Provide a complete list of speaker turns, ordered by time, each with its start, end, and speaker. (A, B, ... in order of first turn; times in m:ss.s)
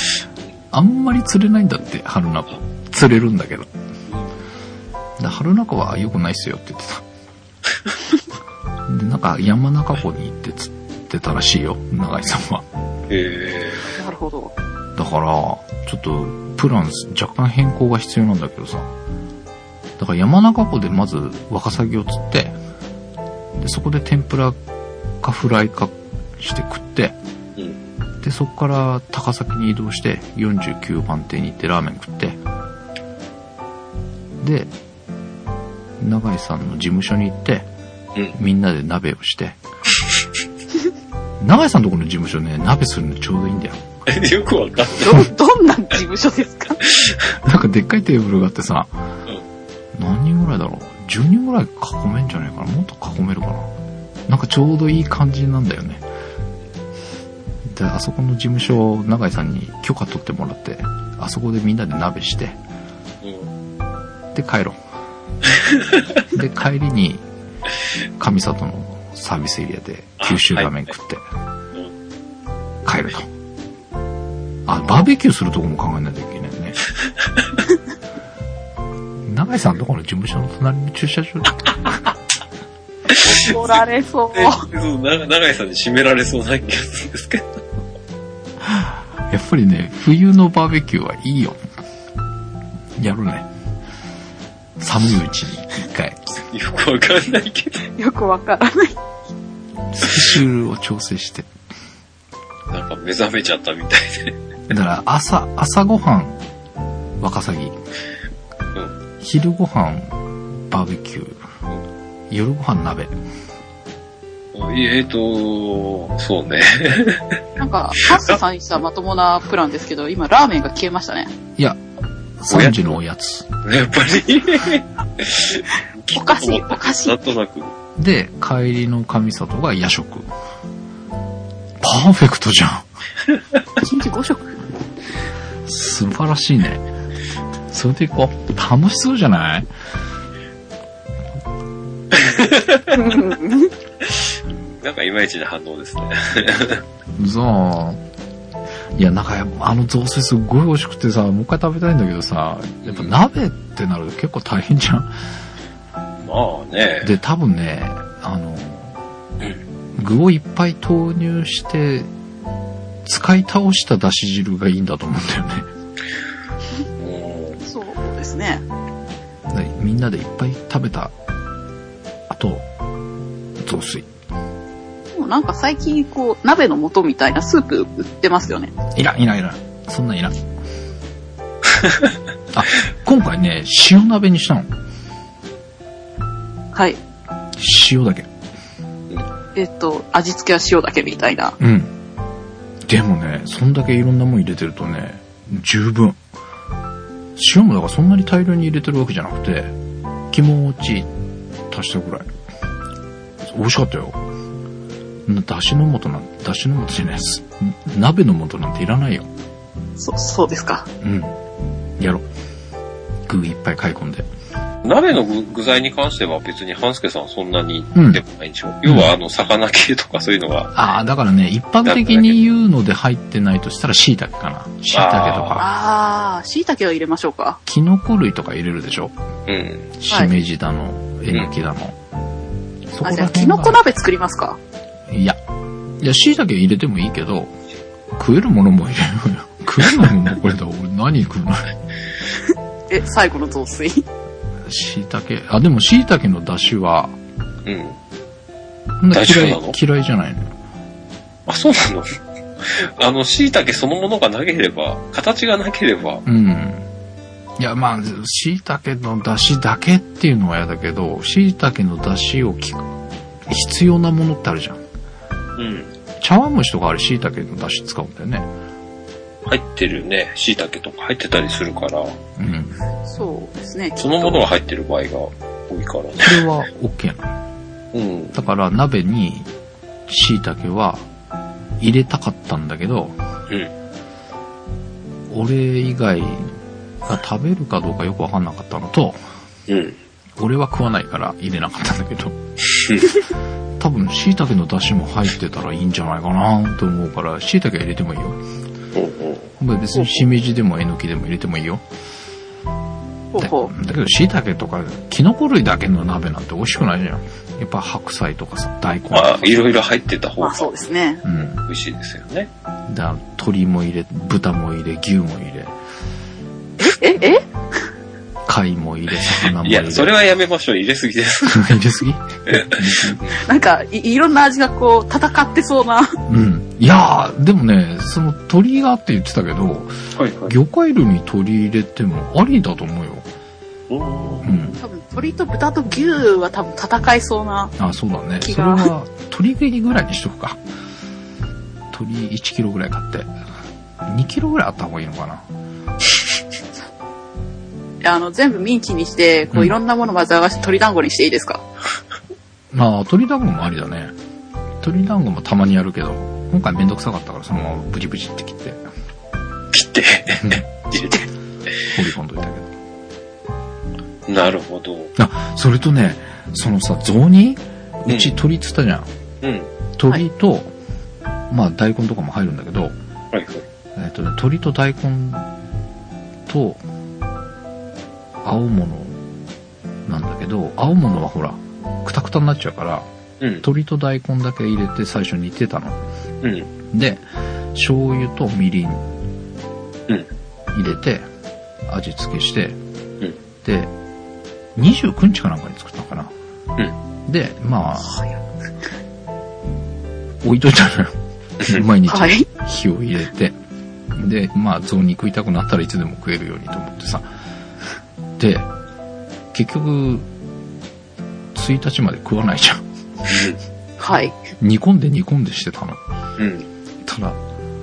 0:00.7-0:03.7 A
0:05.2-0:07.0 A
0:08.9-0:12.7 A
0:13.1-0:13.9 B
0:14.0-0:14.5 C
0:15.0-0:18.9 A
0:20.0-0:22.6 A
0:23.6-0:24.6 A
0:25.2-0:27.2 A
0:28.2-0:32.4 A
0:34.4-0:34.7 A
0:36.0-0:37.7 A
0:38.3-0:39.6 A
0:41.4-0:43.9 A
0:44.1-0:45.3 B
0:45.0-0:46.8 C
0:46.9-0:47.2 B
0:47.4-0:49.0 A
0:50.0-0:53.7 A
0:54.3-0:56.0 A
0:57.7-1:02.6 A
1:03.2-1:03.5 B
1:04.3-1:04.8 A
1:05.5-1:06.1 B
1:06.3-1:07.2 A
1:08.2-1:11.2 A
1:10.2-1:10.8 B
1:12.8-1:13.3 A
1:14.7-1:16.8 A
1:19.2-1:22.0 A
1:23.1-1:23.8 B
1:23.2-1:24.6 C
1:24.3-1:27.6 B
1:28.6-1:31.6 A
1:33.0-1:33.5 A
1:34.8-1:36.2 A
1:36.5-1:37.8 B
1:38.0-1:39.0 C
1:39.9-1:41.5 A
1:42.7-1:44.4 B
1:44.7-1:46.4 A
1:47.2-1:47.8 A
1:49.2-1:50.1 A
1:50.7-1:51.4 A
1:52.3-1:53.1 A
1:54.5-1:57.4 B
1:57.6-2:01.3 C
1:58.1-1:58.4 B
2:02.4-2:03.5 A
2:02.5-2:03.0 B
2:03.6-2:07.7 B
2:06.1-2:07.2 C
2:08.0-2:10.3 A
2:11.8-2:12.9 A
2:13.8-2:14.5 C
2:15.6-2:16.8 A
2:17.7-2:19.7 A
2:22.1-2:23.0 B
2:22.9-2:23.7 C
2:24.8-2:26.8 B
2:27.2-2:28.0 A
2:29.0-2:35.1 A
2:32.8-2:33.1 B
2:36.2-2:37.1 B
2:37.0-2:39.0 A
2:40.0-2:42.1 A
2:43.0-2:45.7 A
2:47.0-2:47.6 B
2:47.6-2:48.6 C
2:49.5-2:51.1 A
2:52.3-2:52.7 A
2:53.6-2:54.1 A
2:55.2-2:58.7 C
2:59.0-3:00.4 A
3:02.5-3:04.7 A
3:06.7-3:07.0 C
3:07.6-3:08.3 A
3:09.6-3:11.6 C
3:11.6-3:11.9 A
3:12.9-3:16.2 A
3:17.4-3:19.7 A
3:20.3-3:21.1 A
3:21.7-3:22.3 A
3:23.5-3:24.2 A
3:25.3-3:29.3 A
3:30.0-3:30.9 C
3:31.0-3:31.4 A
3:32.0-3:32.2 A
3:33.3-3:34.3 A
3:34.8-3:40.7 B
3:38.0-3:38.2 A
3:38.8-3:39.1 A
3:40.7-3:45.7 A
3:41.8-3:42.4 B
3:44.9-3:45.6 B
3:45.6-3:47.6 C
3:47.7-3:49.2 A
3:49.5-3:49.9 B
3:50.0-3:52.0 A
3:52.9-3:53.8 A
3:53.0-3:54.6 C
3:55.1-3:55.4 A
3:56.0-3:57.5 A
3:58.2-4:01.7 A
4:02.9-4:04.0 C
4:04.6-4:07.2 A
4:07.7-4:08.0 B
4:09.0-4:10.5 A
4:09.1-4:09.8 B
4:11.5-4:16.2 B
4:16.3-4:16.8 A
4:17.6-4:22.8 A
4:23.5-4:24.8 A
4:25.6-4:25.9 B
4:26.2-4:28.5 A
4:29.5-4:32.1 B
4:32.4-4:32.8 A
4:33.1-4:34.4 C
4:34.0-4:36.5 B
4:36.2-4:37.3 A
4:37.9-4:38.4 B
4:38.4-4:39.5 A
4:40.1-4:41.0 A
4:41.8-4:43.2 A
4:45.3-4:46.5 A
4:47.1-4:49.2 A
4:49.7-4:50.0 B
4:50.4-4:52.4 A
4:52.7-4:53.2 B
4:53.8-4:58.4 A
4:59.0-4:59.5 B
4:59.6-5:01.8 A
5:03.3-5:03.7 C
5:03.4-5:09.7 A
5:09.1-5:10.7 B
5:10.4-5:11.2 C
5:11.2-5:11.6 A
5:11.3-5:12.5 B
5:12.9-5:15.7 A
5:16.8-5:17.4 C
5:18.5-5:20.2 A
5:19.6-5:21.8 B
5:21.5-5:23.2 A
5:22.5-5:23.4 B
5:23.4-5:26.1 C
5:26.3-5:30.0 A
5:30.2-5:30.5 B
5:30.5-5:33.3 A
5:33.9-5:34.5 B
5:34.4-5:34.8 A
5:34.8-5:37.7 C
5:37.8-5:40.6 A
5:38.4-5:38.9 C
5:41.9-5:43.3 A
5:44.0-5:45.5 A
5:48.0-5:51.6 C
5:52.7-5:54.1 A
5:54.8-5:58.8 A
5:59.7-6:01.2 B
6:00.4-6:00.7 A
6:01.9-6:02.7 A
6:04.3-6:05.1 B
6:05.2-6:09.1 A
6:08.1-6:08.4 B
6:09.4-6:09.7 B
6:10.0-6:10.7 A
6:11.5-6:13.0 A
6:13.3-6:13.6 B
6:14.0-6:15.5 A
6:16.5-6:16.8 A
6:18.4-6:19.2 A
6:20.1-6:23.1 A
6:23.6-6:26.0 A
6:26.4-6:26.7 B
6:26.9-6:27.2 A
6:27.7-6:29.0 A
6:30.7-6:31.3 A
6:31.9-6:32.8 A
6:33.6-6:33.9 A
6:34.8-6:36.3 A
6:37.3-6:38.2 A
6:40.4-6:41.2 A
6:41.6-6:41.9 B
6:41.7-6:43.6 A
6:42.1-6:42.5 C
6:44.1-6:47.3 A
6:48.4-6:48.7 A
6:49.5-6:50.3 A
6:51.5-6:52.8 A
6:53.3-6:53.6 B
6:54.0-6:54.4 C
6:54.1-6:56.0 A
6:56.4-6:56.7 B
6:57.0-6:57.4 A